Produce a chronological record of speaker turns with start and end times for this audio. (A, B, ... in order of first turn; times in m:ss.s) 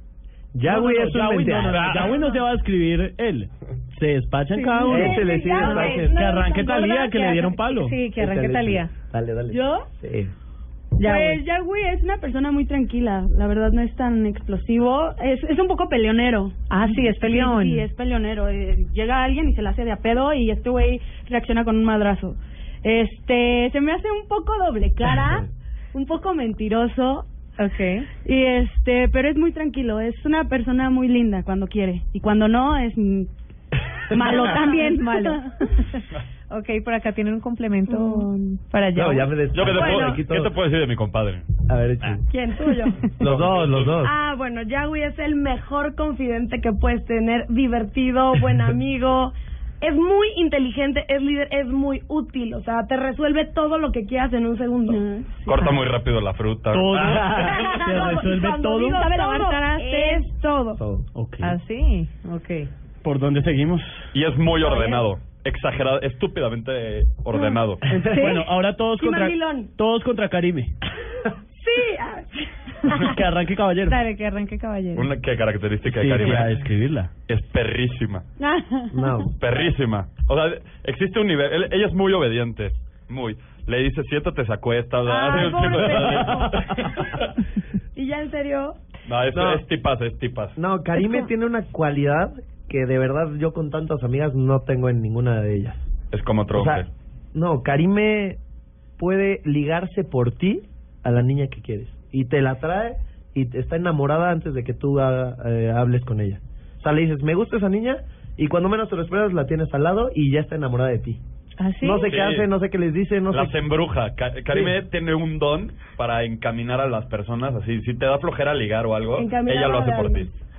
0:00.5-0:02.1 A
0:00.6-0:05.3 B
0:04.8-0:06.1 C
0:04.8-0:07.5 D
0:04.9-0:06.2 A
0:06.0-0:08.0 B
0:07.6-0:08.9 C
0:08.1-0:10.3 A
0:09.5-0:09.9 E
0:11.0-0:11.4 C
0:11.0-0:27.2 E
0:16.7-0:17.8 C
0:27.6-0:28.1 C
0:28.2-0:33.3 E
0:34.1-0:35.6 E
0:34.2-0:39.3 C
0:39.0-0:40.5 A
0:39.5-0:41.4 F
0:39.7-0:40.2 D
0:41.7-0:42.2 A
0:42.3-0:43.1 D
0:43.2-0:44.1 A
0:43.2-0:44.0 F
0:44.0-0:55.0 D
0:54.9-0:55.7 E
0:55.4-0:57.2 F
0:56.7-0:59.1 B
0:57.1-0:57.5 A
0:57.2-1:00.8 D
0:57.6-1:00.3 E
1:00.8-1:01.1 A
1:01.1-1:01.6 B
1:01.4-1:02.7 C
1:03.0-1:04.1 B
1:04.1-1:07.8 F
1:04.7-1:05.0 D
1:07.9-1:10.7 B
1:08.1-1:08.4 C
1:08.9-1:09.7 D
1:11.5-1:12.4 D
1:13.0-1:14.0 B
1:13.8-1:15.1 C
1:14.9-1:16.6 F
1:15.8-1:17.1 B
1:17.3-1:18.2 F
1:18.4-1:18.9 C
1:18.9-1:19.3 A
1:19.4-1:27.2 F
1:25.0-1:26.8 D
1:27.9-1:28.8 D
1:29.0-1:30.6 F
1:29.3-1:29.6 A
1:30.6-1:35.9 A
1:36.1-1:36.9 F
1:36.5-1:38.4 A
1:39.0-1:51.2 A
1:51.6-1:52.1 C
1:51.8-1:53.6 A
1:52.0-1:52.5 F
1:53.3-2:00.3 F
1:54.5-1:54.8 A
1:59.1-2:00.3 D